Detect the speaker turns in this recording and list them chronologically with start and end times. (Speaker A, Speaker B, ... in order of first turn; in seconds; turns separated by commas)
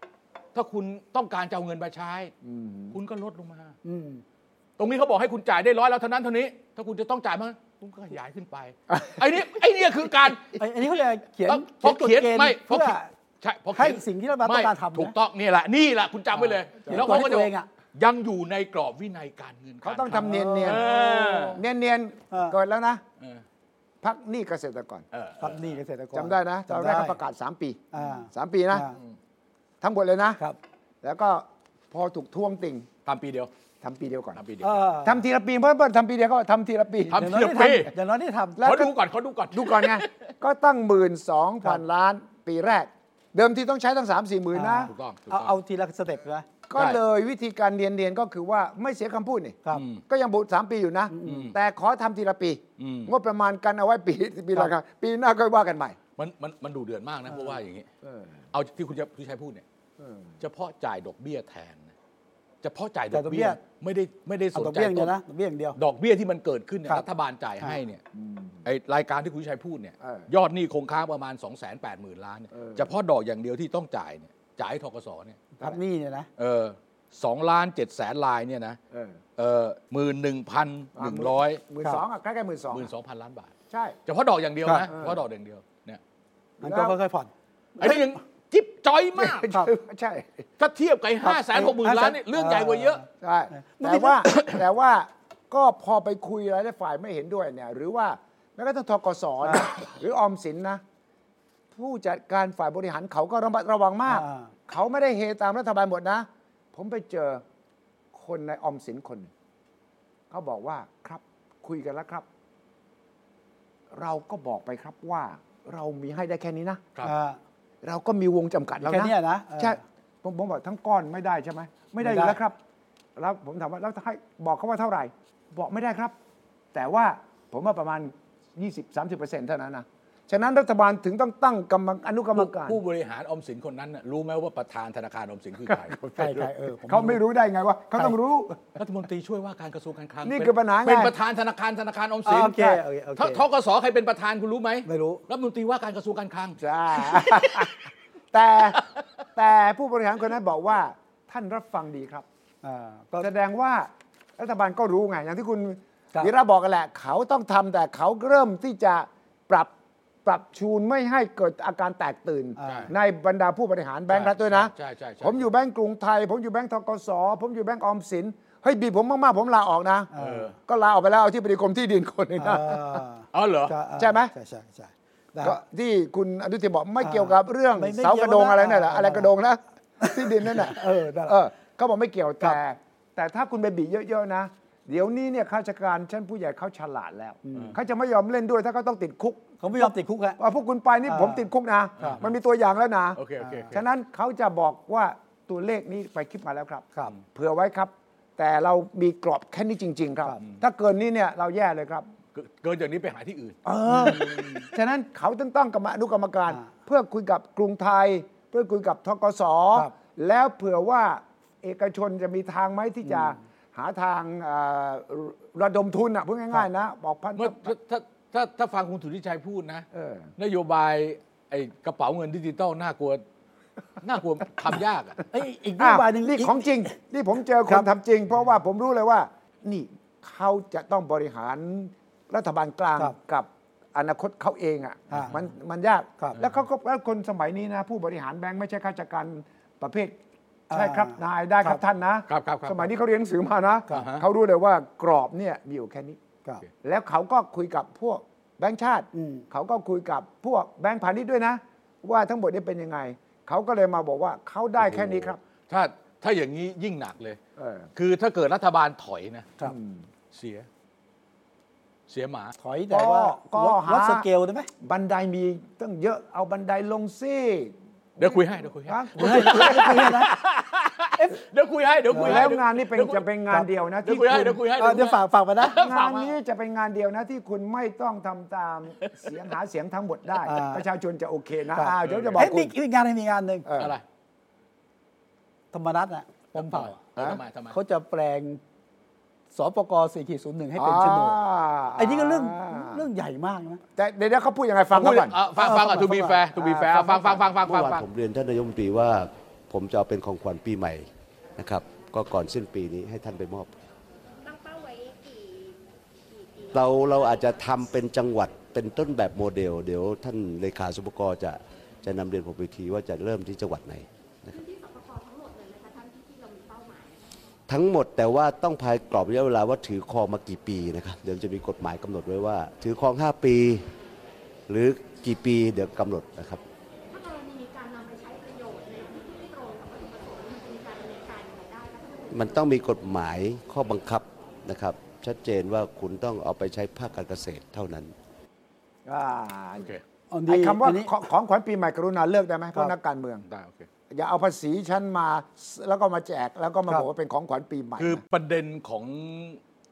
Speaker A: 0.6-2.3, Speaker B: 2.4-3.0, Speaker A: 2.9-3.8, Speaker C: 3.8-4.2, Speaker A: 4.8-10.6, Speaker C: 10.6-13.1, Speaker A: 11.5-21.6, Speaker C: 13.7-15.1, Speaker C: 16.4-17.7, Speaker B: 16.9-17.3, Speaker B: 19.8-23.0, Speaker C: 20.1-21.6, Speaker B: 24.0-25.1, Speaker A: 25.1-25.8, Speaker C: 25.4-27.2, Speaker B: 26.1-28.9, Speaker C: 27.9-28.9, Speaker B: 29.8-30.4, Speaker B: 31.0-32.9, Speaker A: 33.1-33.5, Speaker B: 33.8-34.4, Speaker A: 34.4-34.8, Speaker C: 34.6-35.2, Speaker B: 35.0-37.3, Speaker A: 37.1-37.9, Speaker C: 37.2-38.7, Speaker B: 38.6-38.9, Speaker A: 38.6-40.1, Speaker B: 39.5-44.9, Speaker C: 44.5-46.5, Speaker A: 44.9-45.5, Speaker B: 46.7-56.0, Speaker A: 49.7-50.0, Speaker C: 51.1-51.5, Speaker A: 51.2-51.5, Speaker A: 52.8-53.1, Speaker A: 56.2-57.9, Speaker B: 58.0-58.4, Speaker A: 58.5-59.6, Speaker B: 60.0-60.3, Speaker A: 60.4-61.9, Speaker A: 62.6-65.2, Speaker C: 63.1-63.6, Speaker C: 64.5-65.8, Speaker A: 65.8-68.0, Speaker B: 68.1-68.7, Speaker A: 68.6-75.5, Speaker B: 70.0-70.3, Speaker B: 72.5-72.9, Speaker C: 75.6-76.3, Speaker A: 76.4-78.8, Speaker B: 78.9-79.2, Speaker A: 79.4-81.6, Speaker B: 81.0-82.9, Speaker A: 82.7-83.5, Speaker B: 83.7-84.0, Speaker A: 84.1-86.0, Speaker B: 84.9-85.2, Speaker B: 86.6-87.0, Speaker C: 86.6-88.1, Speaker A: 87.8-89.5, Speaker B: 89.2-90.5, Speaker A: 90.6-93.0, Speaker C: 91.2-94.5, Speaker B: 93.2-100.8, Speaker C: 99.4-99.7, Speaker B: 101.7-107.4, Speaker C: 104.1-104.5, Speaker B: 108.1-109.3, Speaker B: 110.3-112.3, Speaker B: 113.9-116.8, Speaker C: 117.0-117.4, Speaker B: 117.8-122.6, Speaker C: 118.8-119.8, Speaker C: 122.0-122.4, Speaker B: 123.2-126.2, Speaker B: 126.7-132.8, Speaker A: 132.3-136.5, Speaker B: 135.7-136.3, Speaker C: 136.2-137.2, Speaker B: 136.9-138.7, Speaker A: 138.8-147.7, Speaker B: 140.2-141.2, Speaker C: 142.3-143.4, Speaker C: 144.9-145.2, Speaker B: 146.6-148.8, Speaker A: 148.7-149.0, Speaker B: 149.3-152.3, Speaker C: 152.6-153.3, Speaker B: 153.2-159.7, Speaker B: 160.2-170.1, Speaker C: 162.6-162.9, Speaker A: 162.6-162.9, Speaker A: 164.1-165.4, Speaker C: 170.1-170.5, Speaker A: 170.2-170.5, Speaker B: 170.6-173.0, Speaker C: 172.4-175.6, Speaker A: 173.3-173.8, Speaker B: 174.0-174.3, Speaker B: 175.4-202.1, Speaker C: 177.0-179.3, Speaker C: 180.0-181.4, Speaker C: 187.4-187.8, Speaker C: 189.6-190.4, Speaker C: 191.1-191.4, Speaker A: 192.0-192.3, Speaker A: 193.2-193.8, Speaker C: 193.4-193.7, Speaker A: 202.3-203.6, Speaker B: 203.7-217.7, Speaker C: 203.8-204.7, Speaker C: 213.1-213.3, Speaker A: 217.4-219.9, Speaker B: 219.9-220.3, Speaker A: 220.4-223.2, Speaker A: 224.0-225.3, Speaker C: 225.3-226.7, Speaker B: 225.8-240.2, Speaker C: 240.7-241.8, Speaker B: 240.7-246.2, Speaker A: 242.3-242.9, Speaker A: 243.9-244.2, Speaker B: 246.8-255.4, Speaker C: 249.1-249.4, Speaker A: 254.9-257.4, Speaker B: 257.6-257.9, Speaker A: 258.0-259.5, Speaker B: 259.6-260.1, Speaker A: 260.3-260.7, Speaker A: 262.1-262.6, Speaker C: 262.6-264.7, Speaker B: 262.9-264.3, Speaker B: 264.8-270.2, Speaker A: 268.2-273.2, Speaker C: 269.2-270.4, Speaker C: 272.1-272.4, Speaker B: 272.2-274.6, Speaker A: 274.0-276.4, Speaker C: 274.8-275.8, Speaker B: 275.7-282.7, Speaker A: 279.0-279.3, Speaker C: 280.5-280.9, Speaker C: 281.8-283.7, Speaker A: 282.0-282.5, Speaker B: 283.7-283.9, Speaker A: 283.8-284.0, Speaker C: 285.7-287.0, Speaker A: 286.6-287.8, Speaker C: 287.7-288.6, Speaker C: 289.5-291.4, Speaker B: 290.8-293.0, Speaker C: 292.0-293.8, Speaker B: 294.0-295.4, Speaker A: 294.9-298.1, Speaker C: 295.6-296.4, Speaker B: 296.6-297.5, Speaker D: 297.6-303.7, Speaker E: 304.4-308.0, Speaker D: 306.7-314.6, Speaker E: 314.5-317.2, Speaker D: 317.7-323.9, Speaker D: 324.7-326.6, Speaker E: 327.1-332.9, Speaker D: 332.3-338.1, Speaker B: 339.1-339.9, Speaker C: 340.3-341.1, Speaker B: 340.5-343.4, Speaker A: 343.5-343.9, Speaker B: 344.1-348.2, Speaker A: 348.0-349.6